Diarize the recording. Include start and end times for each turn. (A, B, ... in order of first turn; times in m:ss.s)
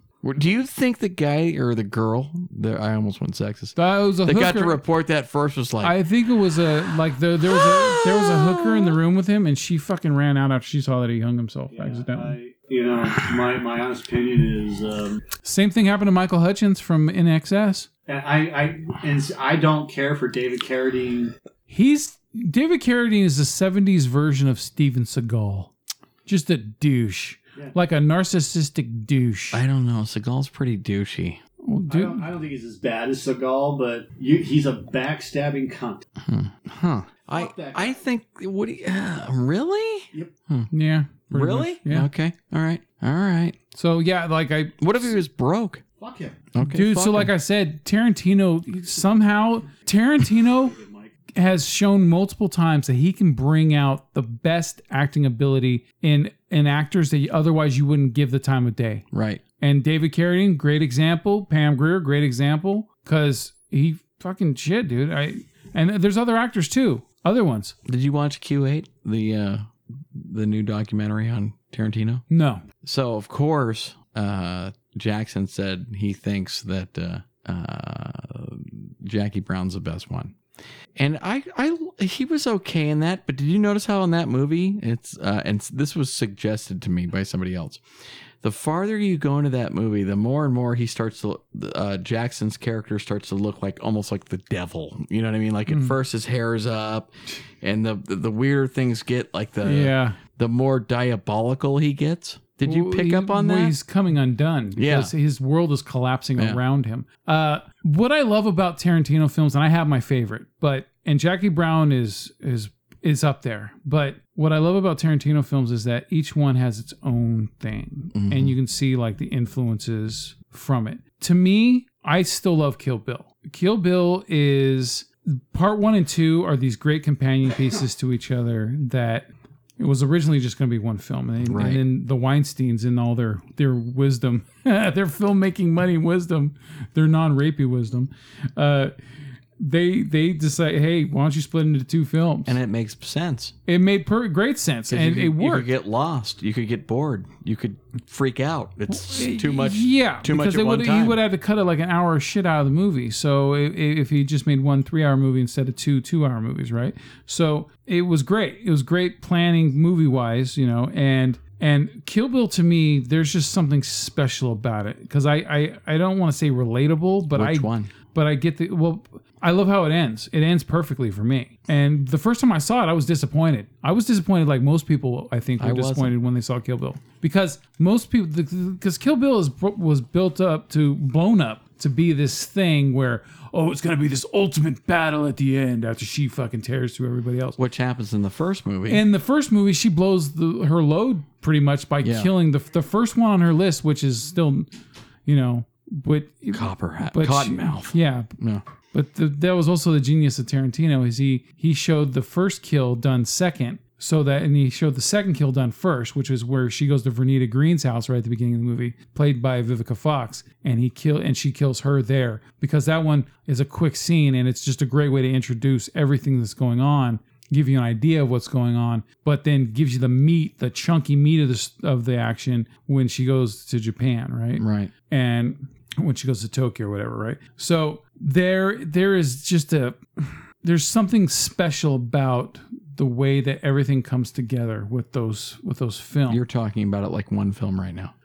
0:00.2-0:05.9 A
0:03.8-0:04.8 B
0:05.8-0:12.4 B
0:07.5-0:09.0 A
0:11.7-0:15.2 C
0:15.4-0:17.9 B
0:18.1-0:21.3 C
0:21.7-0:25.7 B
0:26.2-0:29.6 B
0:29.5-0:31.4 A
0:31.6-0:32.2 B
0:31.9-0:36.0 C
0:36.2-0:40.7 A
0:37.3-0:38.0 C
0:40.7-0:42.1 B
0:41.3-0:43.6 A
0:43.7-0:44.8 B
0:44.8-0:45.8 A
0:46.0-0:46.4 C
0:46.5-0:47.3 A
0:46.6-0:50.8 B
0:50.6-0:51.1 C
0:51.3-0:59.0 B
0:59.1-0:59.4 A
0:59.6-1:07.7 B
1:07.9-1:12.2 A
1:12.3-1:12.6 B
1:12.8-1:20.3 A
1:21.0-1:27.8 A
1:28.4-1:43.7 A
1:35.7-1:36.0 B
1:39.6-1:40.2 B
1:42.6-2:09.3 B
1:44.8-1:45.1 A
1:58.1-1:58.5 A
2:09.8-2:18.9 B
2:11.4-2:11.8 A
2:19.6-2:22.6 B
2:22.5-2:23.5 A
2:23.6-2:25.7 B
2:24.9-2:31.2 A
2:28.9-3:07.6 B
2:47.3-2:47.9 A
2:55.6-2:56.1 A
3:07.6-3:09.0 A
3:08.9-3:14.7 B
3:12.0-3:12.3 A
3:15.2-3:18.3 B
3:16.5-3:18.6 A
3:18.9-3:56.4 B
3:44.6-3:44.9 A
3:56.3-3:58.1 A